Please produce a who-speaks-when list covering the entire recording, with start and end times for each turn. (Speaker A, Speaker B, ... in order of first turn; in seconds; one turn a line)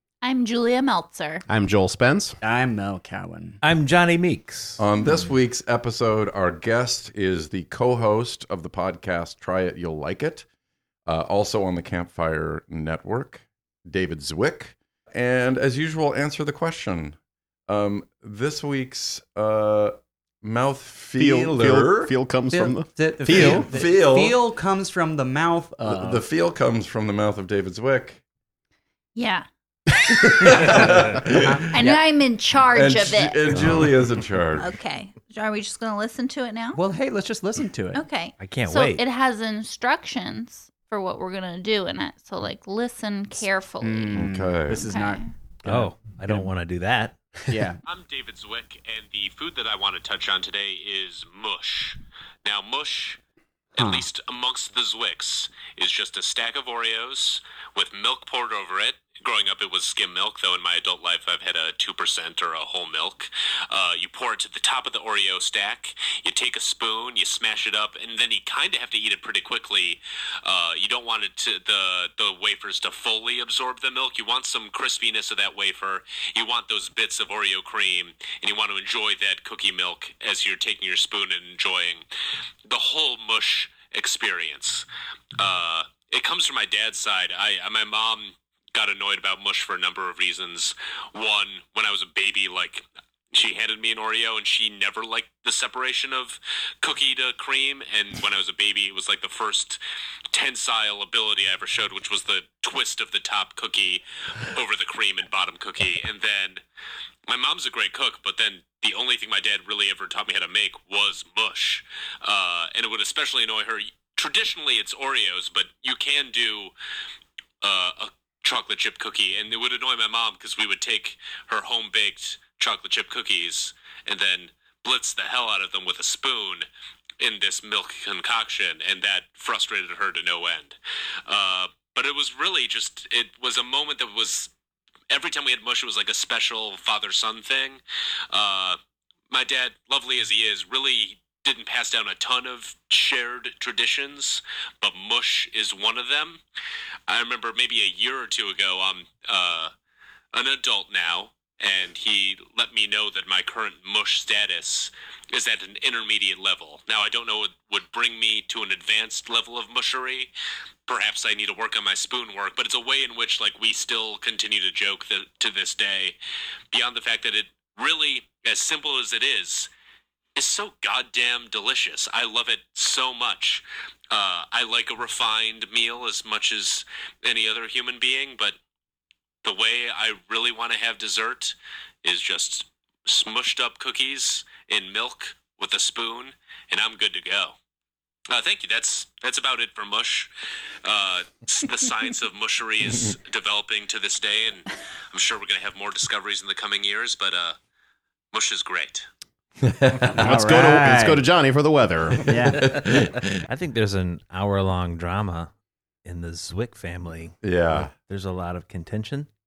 Speaker A: 0.2-1.4
Speaker B: 1.5-2.4
Speaker C: 2.4-3.6
Speaker D: 3.6-4.8
Speaker E: 4.8-10.4
Speaker E: 11.1-22.1
Speaker B: 21.2-23.7
Speaker C: 22.5-26.2
Speaker E: 23.2-24.4
Speaker E: 25.9-28.2
Speaker A: 29.1-29.5
Speaker E: 30.1-31.7
Speaker C: 31.4-32.0
Speaker A: 31.7-33.6
Speaker E: 32.7-34.7
Speaker A: 34.5-36.8
Speaker C: 36.7-38.0
Speaker A: 37.9-45.3
Speaker D: 38.4-39.0
Speaker C: 43.8-46.5
Speaker E: 44.1-44.8
Speaker D: 45.6-47.2
Speaker C: 47.5-47.8
Speaker F: 47.9-53.2
Speaker F: 53.8-82.0
Speaker C: 53.8-54.0
Speaker F: 82.7-84.9
Speaker F: 85.4-99.8
Speaker F: 100.3-106.6
Speaker F: 107.3-116.7
Speaker F: 117.6-126.7
Speaker F: 127.2-134.5
Speaker F: 135.1-138.8
Speaker F: 139.3-146.4
Speaker F: 147.1-149.7
Speaker F: 150.3-160.3
Speaker F: 160.9-166.2
Speaker F: 166.7-169.7
Speaker F: 170.3-178.6
Speaker F: 179.4-187.5
Speaker F: 188.3-190.3
Speaker F: 190.8-197.6
Speaker F: 198.3-199.1
Speaker E: 199.6-200.2
Speaker C: 200.2-201.2
Speaker B: 200.2-202.2
Speaker E: 202.1-203.4
Speaker C: 202.3-202.6
Speaker D: 202.3-205.5
Speaker D: 206.0-209.3
Speaker E: 207.4-207.9